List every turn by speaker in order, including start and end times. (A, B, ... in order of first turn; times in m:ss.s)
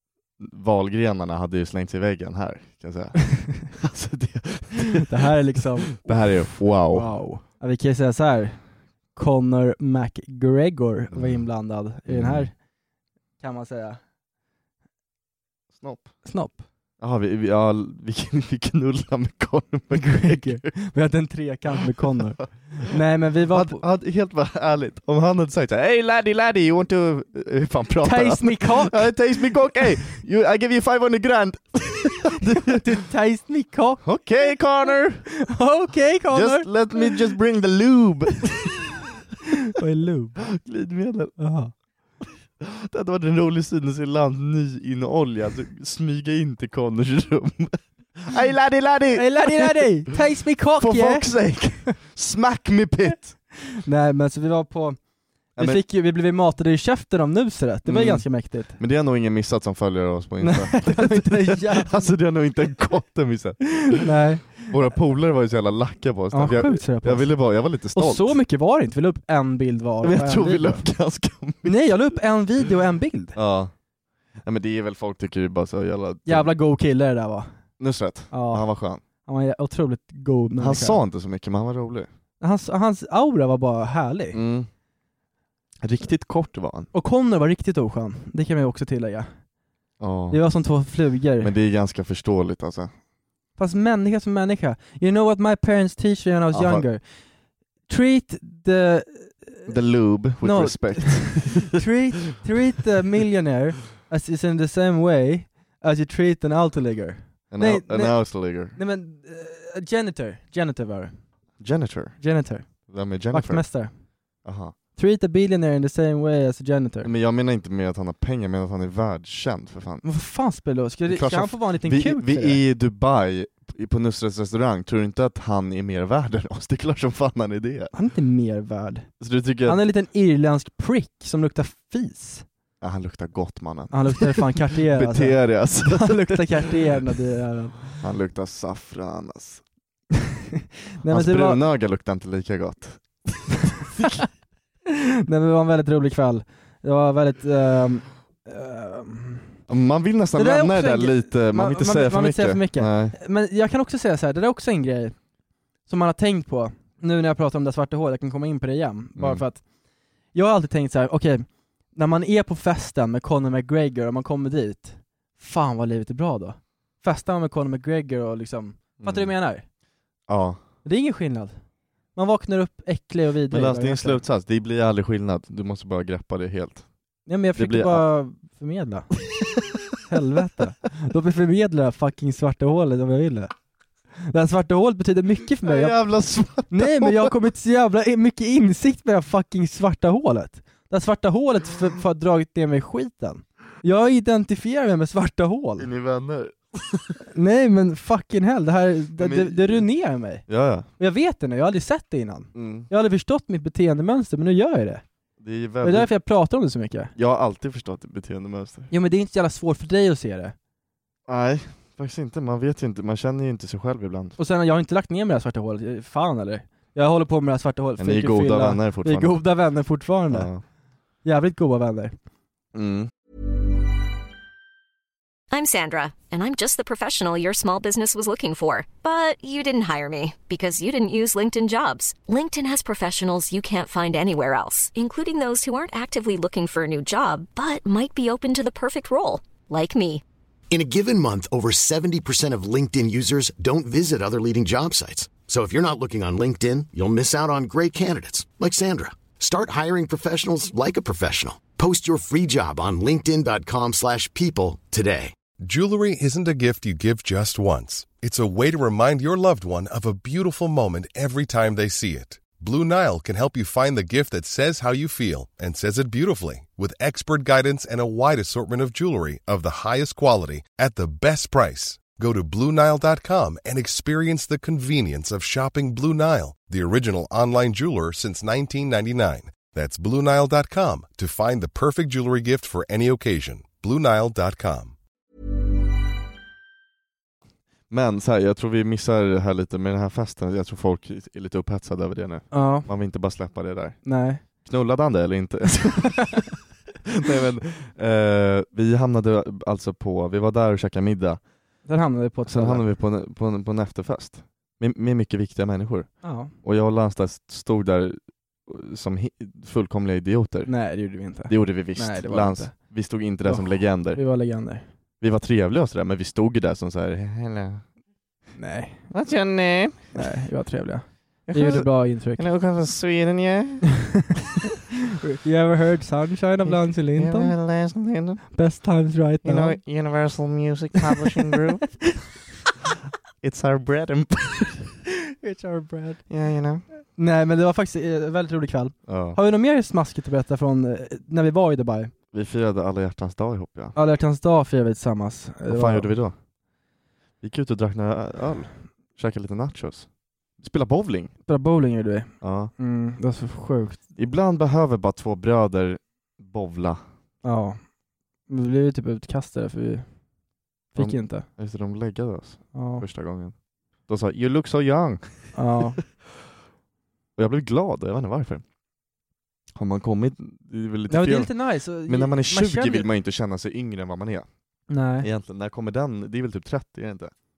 0:00.4-0:05.1 A
0:05.0-0:06.3 B
0:05.9-0:07.1 A
0:06.9-0:08.6 B
0:09.1-0:12.5 B
0:11.1-0:11.4 A
0:12.1-0:12.5 A
0:13.4-0:14.0 B
0:15.7-0:16.1 A
0:16.2-0:16.6 B
0:17.0-0:20.7 A
0:19.9-0:23.8 B
0:22.0-0:22.4 A
0:23.5-0:32.8 A
0:28.0-0:29.2 B
0:32.4-0:34.0 B
0:34.0-0:35.3 A
0:35.4-0:37.3 B
0:36.3-0:39.0 A
0:39.7-0:40.5 B
0:40.5-0:41.4 A
0:41.4-0:41.7 B
0:42.6-0:50.0 A
0:49.1-0:51.3 B
0:50.8-0:53.4 A
0:53.7-0:55.0 B
0:55.5-0:58.8 B
0:55.6-0:55.8 A
0:57.8-1:04.1 A
1:00.4-1:02.0 B
1:03.9-1:04.7 B
1:04.6-1:08.4 A
1:06.3-1:07.3 B
1:07.9-1:10.8 B
1:10.0-1:12.0 A
1:11.6-1:13.4 B
1:13.3-1:13.7 A
1:14.4-1:16.5 A
1:16.3-1:17.5 B
1:17.8-1:19.0 A
1:18.3-1:18.7 B
1:19.2-1:21.0 B
1:20.6-1:22.1 A
1:22.4-1:24.4 B
1:24.3-1:24.7 A
1:25.8-1:26.9 A
1:26.9-1:29.3 B
1:30.0-1:30.4 A
1:30.3-1:31.5 B
1:31.4-1:32.9 A
1:33.6-1:37.2 B
1:36.5-1:36.9 A
1:37.9-1:39.7 B
1:39.6-1:41.8 A
1:40.4-1:51.2 B
1:47.5-1:48.8 A
1:51.6-1:52.2 A
1:52.2-1:52.7 B
1:52.9-1:53.6 A
1:53.3-1:53.9 B
1:54.4-1:54.7 A
1:55.0-1:57.1 B
1:57.0-2:00.0 A
2:00.0-2:02.6 B
2:01.0-2:07.9 A
2:07.9-2:09.1 B
2:09.2-2:09.8 A
2:09.6-2:12.4 B
2:12.8-2:16.7 A
2:13.9-2:18.0 B
2:18.0-2:19.6 A
2:21.0-2:21.6 B
2:21.1-2:24.2 A
2:24.0-2:24.2 B
2:24.9-2:29.6 B
2:29.7-2:33.2 A
2:30.3-2:35.2 B
2:35.8-2:39.7 B
2:39.2-2:39.4 A
2:40.3-2:49.6 B
2:49.0-2:49.3 A
2:50.3-2:50.6 A
2:50.8-2:51.5 B
2:52.1-2:54.2 B
2:53.5-2:56.9 A
2:57.2-2:59.1 B
2:57.6-2:58.0 A
3:00.0-3:03.5 B
3:04.2-3:06.0 B
3:05.6-3:07.3 A
3:06.7-3:15.9 B
3:15.8-3:17.2 A
3:17.3-3:25.0 B
3:19.2-3:19.8 A
3:20.5-3:20.9 A
3:22.5-3:22.9 A
3:25.4-3:26.1 A
3:25.8-3:27.1 B
3:27.2-3:28.9 A
3:28.9-3:30.5 B
3:31.3-3:34.4 A
3:34.4-3:40.5 B
3:38.0-3:39.4 A
3:40.3-3:40.6 A
3:41.2-3:42.1 B
3:42.7-3:43.1 A
3:45.5-4:00.2 C
4:00.7-4:15.4 D
4:15.6-4:44.9 E
4:47.9-4:56.5 A
4:52.5-4:52.9 B
4:54.0-4:54.4 B
4:57.0-5:01.4 A
5:01.8-5:02.8 B
5:02.5-5:10.7 A
5:06.2-5:06.5 B
5:10.6-5:12.8 B
5:11.5-5:14.2 A
5:13.4-5:14.9 B
5:15.2-5:17.8 A
5:18.6-5:19.1 B
5:19.1-5:20.2 A
5:20.1-5:22.4 B
5:21.5-5:23.9 A
5:25.1-5:27.5 B
5:26.7-5:28.4 A
5:28.5-5:29.8 B
5:29.4-5:31.8 A
5:30.9-5:32.3 B
5:33.4-5:34.9 A
5:35.4-5:36.2 B
5:36.3-5:36.8 A
5:37.1-5:42.1 B
5:39.1-5:39.4 A
5:42.3-5:43.9 A
5:43.9-5:46.1 B
5:45.7-5:46.4 A
5:47.4-5:51.3 A
5:51.4-5:54.0 B
5:52.4-5:52.7 A
5:54.2-5:57.0 A
5:57.4-5:57.8 B
5:58.5-6:00.0 B
6:00.9-6:01.4 B
6:01.0-6:03.5 A
6:02.7-6:03.0 B
6:04.1-6:05.5 A
6:05.5-6:06.0 B
6:07.4-6:08.6 A
6:09.7-6:14.5 A
6:11.1-6:13.1 B
6:14.9-6:15.3 B
6:15.2-6:17.3 A